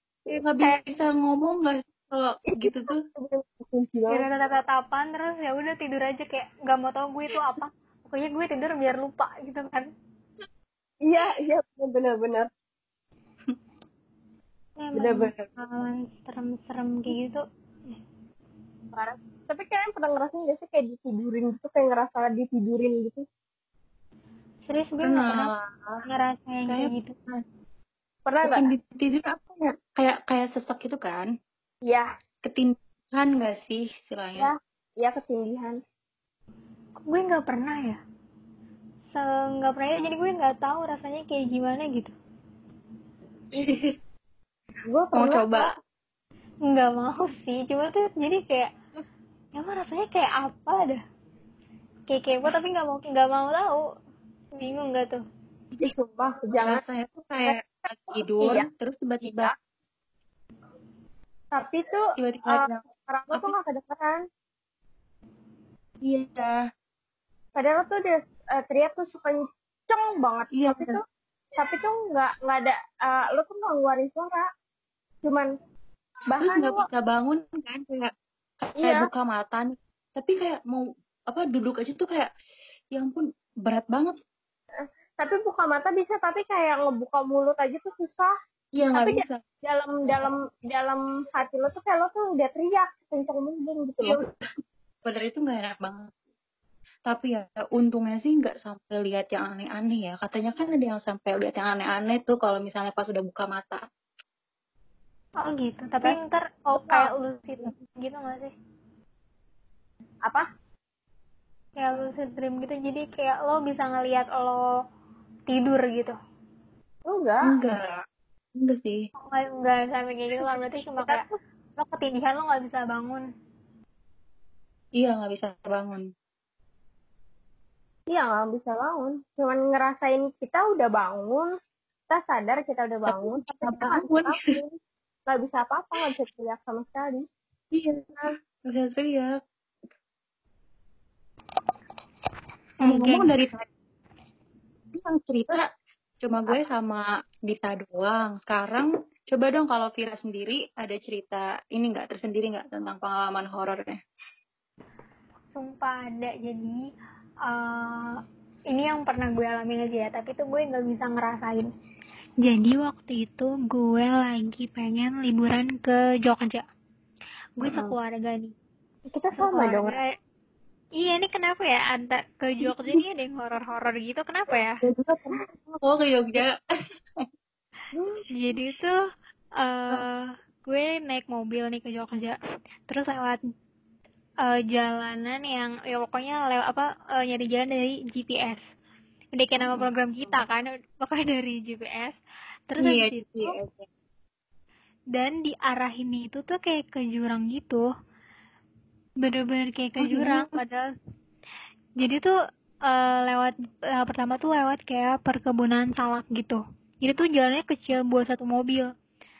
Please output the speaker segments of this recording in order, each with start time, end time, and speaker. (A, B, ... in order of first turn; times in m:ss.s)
0:00.3-0:03.0 A
0:02.5-0:04.2 B
0:04.1-0:09.9 C
0:11.0-0:12.5 B
0:14.8-0:18.0 C
0:15.0-0:15.3 B
0:18.9-0:23.2 B
0:24.7-0:25.5 C
0:25.0-0:26.0 A
0:26.1-0:27.2 C
0:26.7-0:27.4 A
0:28.2-0:28.7 B
0:28.4-0:31.3 A
0:32.4-0:34.5 A
0:34.4-0:35.8 B
0:37.0-0:38.0 C
0:39.1-0:42.1 C
0:43.6-0:43.9 A
0:44.9-0:45.7 B
0:45.1-0:45.7 A
0:46.7-0:48.7 C
0:49.5-0:51.0 C
0:52.1-0:53.8 C
0:54.6-0:55.2 C
0:55.8-0:56.8 B
0:56.6-0:59.5 A
0:58.4-0:58.7 B
0:59.2-0:59.5 B
1:01.5-1:04.2 B
1:02.2-1:03.5 A
1:06.0-1:06.6 A
1:07.6-1:11.0 B
1:10.5-1:11.0 A
1:11.6-1:14.5 B
1:15.2-1:15.5 B
1:16.3-1:16.9 B
1:16.4-1:18.1 A
1:18.6-1:22.3 A
1:18.8-1:19.1 B
1:22.9-1:24.1 A
1:24.8-1:28.3 B
1:28.8-1:29.4 A
1:28.9-1:34.2 B
1:34.0-1:34.3 A
1:35.0-1:36.1 A
1:37.1-1:43.8 A
1:45.4-1:48.5 C
1:51.8-1:54.6 C
1:55.5-1:56.2 C
1:57.0-1:57.5 B
1:57.4-1:58.0 A
1:58.5-1:59.1 A
1:59.2-2:01.2 C
2:01.0-2:01.3 B
2:01.8-2:03.2 C
2:05.0-2:06.0 A
2:08.1-2:11.5 B
2:12.1-2:14.8 B
2:13.0-2:14.5 A
2:15.3-2:17.2 B
2:17.7-2:19.3 A
2:22.8-2:23.3 C
2:22.8-2:23.6 A
2:24.9-2:25.7 A
2:26.2-2:34.0 A
2:35.5-2:36.8 C
2:37.5-2:38.2 C
2:38.7-2:41.7 C
2:42.4-2:46.6 C
2:47.6-2:48.5 C
2:49.1-2:50.0 B
2:49.4-2:50.1 C
2:51.0-2:54.8 C
2:52.6-2:53.0 A
2:54.8-2:56.6 A
2:57.9-2:58.2 B
2:58.3-2:59.0 C
2:59.6-3:02.4 C
3:02.9-3:03.4 C
3:04.4-3:08.6 C
3:09.4-3:12.2 C
3:09.6-3:10.4 A
3:12.7-3:13.6 C
3:12.8-3:13.9 A
3:15.1-3:17.8 C
3:19.2-3:20.8 C
3:20.0-3:20.6 A
3:22.0-3:22.3 C
3:22.8-3:28.9 C